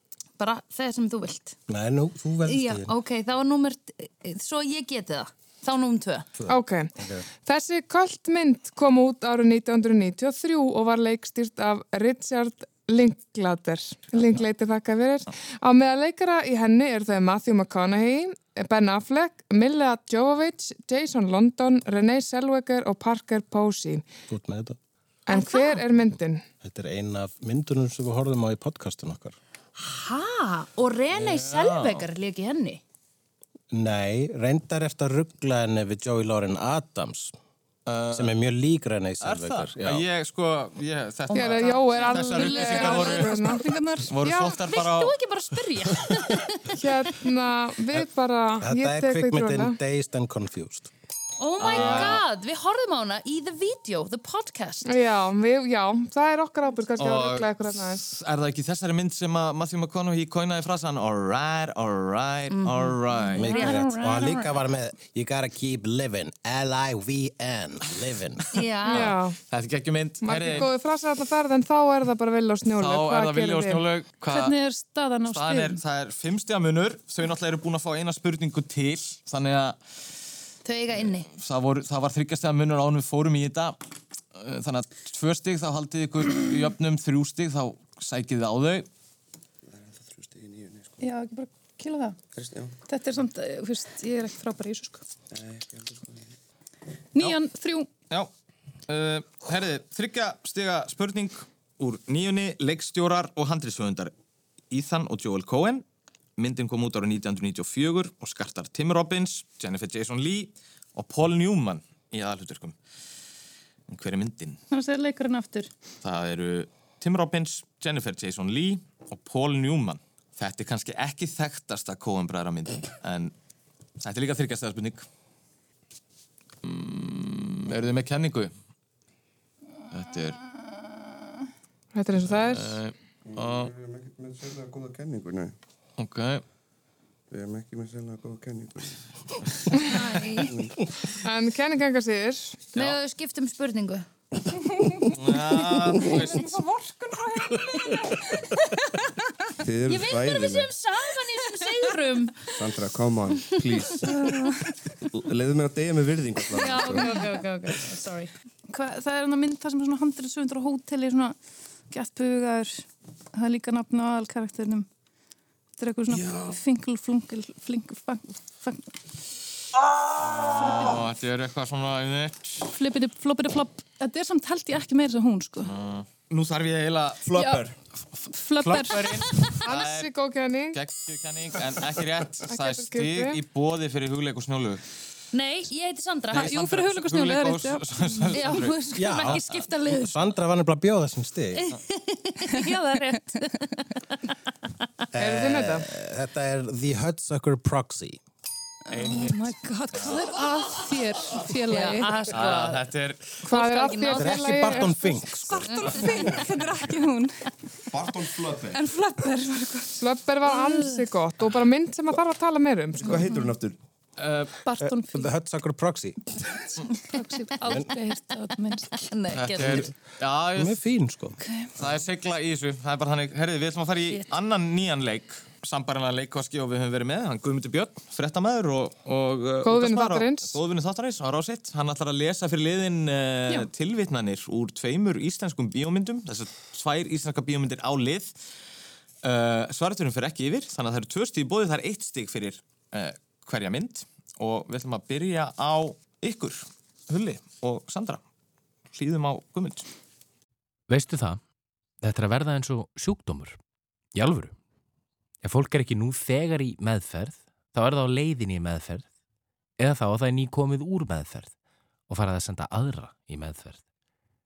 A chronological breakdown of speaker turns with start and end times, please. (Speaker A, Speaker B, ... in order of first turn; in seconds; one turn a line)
Speaker A: 0.4-1.6
Speaker B: 1.7-2.9
Speaker A: 2.4-6.3
Speaker B: 6.4-7.2
Speaker C: 6.5-6.9
Speaker C: 7.4-24.1
Speaker B: 24.3-24.8
Speaker C: 25.3-26.4
Speaker A: 25.3-25.8
Speaker B: 26.6-29.4
Speaker A: 29.8-32.8
Speaker D: 31.1-32.1
Speaker B: 33.7-37.3
Speaker D: 37.9-38.3
Speaker B: 38.1-40.0
Speaker D: 39.2-43.5
Speaker A: 41.3-41.9
Speaker C: 41.3-43.6
Speaker E: 42.1-44.1
Speaker D: 44.0-45.2
Speaker C: 44.2-44.5
Speaker A: 44.7-46.6
Speaker C: 46.8-49.8
Speaker B: 48.6-50.9
Speaker A: 51.4-54.9
Speaker D: 51.6-52.2
Speaker B: 51.8-52.1
Speaker C: 54.9-58.0
Speaker D: 57.0-63.7
Speaker A: 62.5-64.6
Speaker B: 63.4-68.6
Speaker A: 68.5-69.2
Speaker C: 68.9-69.3
Speaker D: 69.5-70.7
Speaker C: 70.2-73.8
Speaker D: 72.7-74.5
Speaker E: 74.3-75.8
Speaker D: 75.3-79.8
Speaker A: 80.6-81.3
Speaker D: 81.3-83.8
Speaker D: 84.3-88.9
Speaker F: 89.7-91.0
Speaker E: 91.0-92.2
Speaker F: 92.3-92.8
Speaker E: 92.9-95.0
Speaker F: 95.3-96.3
Speaker E: 97.1-97.9
Speaker D: 98.9-104.1
Speaker D: 104.7-105.8
Speaker D: 106.4-112.7
Speaker D: 113.9-114.6
Speaker E: 114.7-115.7
Speaker D: 116.0-123.3
Speaker D: 124.0-125.0
Speaker D: 126.6-128.5
Speaker D: 129.9-130.4
Speaker C: 131.9-132.8
Speaker D: 132.4-133.7
Speaker F: 133.2-135.5
Speaker D: 136.0-136.4
Speaker F: 137.3-139.0
Speaker A: 139.8-140.5
Speaker F: 140.3-140.7
Speaker C: 141.2-142.6
Speaker A: 142.7-144.1
Speaker D: 145.1-146.5
Speaker E: 146.1-148.4
Speaker F: 149.6-150.7
Speaker A: 149.9-152.4
Speaker F: 152.5-154.4
Speaker E: 154.1-154.5
Speaker F: 155.1-157.3
Speaker A: 156.5-158.3
Speaker E: 158.7-161.3
Speaker E: 161.9-164.9
Speaker E: 165.8-168.9
Speaker F: 166.1-166.6
Speaker F: 170.3-170.9
Speaker D: 170.3-172.7
Speaker E: 170.5-171.0
Speaker E: 172.7-175.7
Speaker D: 175.6-177.2
Speaker F: 177.2-177.7
Speaker E: 177.3-177.7
Speaker E: 178.2-179.3
Speaker D: 178.6-180.1
Speaker C: 179.6-180.8
Speaker D: 180.7-184.8
Speaker C: 182.5-183.4
Speaker A: 185.3-186.5
Speaker D: 186.3-188.8
Speaker E: 186.3-188.6
Speaker A: 188.3-190.1
Speaker B: 188.9-191.7
Speaker A: 191.5-193.7
Speaker E: 192.5-193.4
Speaker B: 195.1-198.2
Speaker C: 195.2-195.9
Speaker D: 198.9-199.4
Speaker E: 198.9-202.2
Speaker D: 199.9-200.2
Speaker A: 201.7-202.8
Speaker D: 202.3-203.3
Speaker C: 203.4-205.1
Speaker A: 203.5-204.8
Speaker B: 204.1-205.9
Speaker E: 205.3-207.3
Speaker F: 207.9-208.8
Speaker E: 208.7-210.0
Speaker C: 210.0-213.2
Speaker A: 210.5-210.9
Speaker F: 213.0-213.8
Speaker D: 214.2-214.5
Speaker E: 214.6-215.3
Speaker B: 214.8-216.2
Speaker E: 216.9-219.0
Speaker A: 218.9-219.9
Speaker D: 219.3-220.8
Speaker B: 219.6-219.9
Speaker B: 220.5-221.4
Speaker D: 221.8-238.3
Speaker C: 229.6-230.6
Speaker D: 239.2-248.2
Speaker D: 248.9-249.8
Speaker G: 250.9-251.4
Speaker G: 252.0-253.6
Speaker G: 254.1-254.6
Speaker G: 255.4-259.1
Speaker G: 259.8-261.5
Speaker G: 262.1-263.8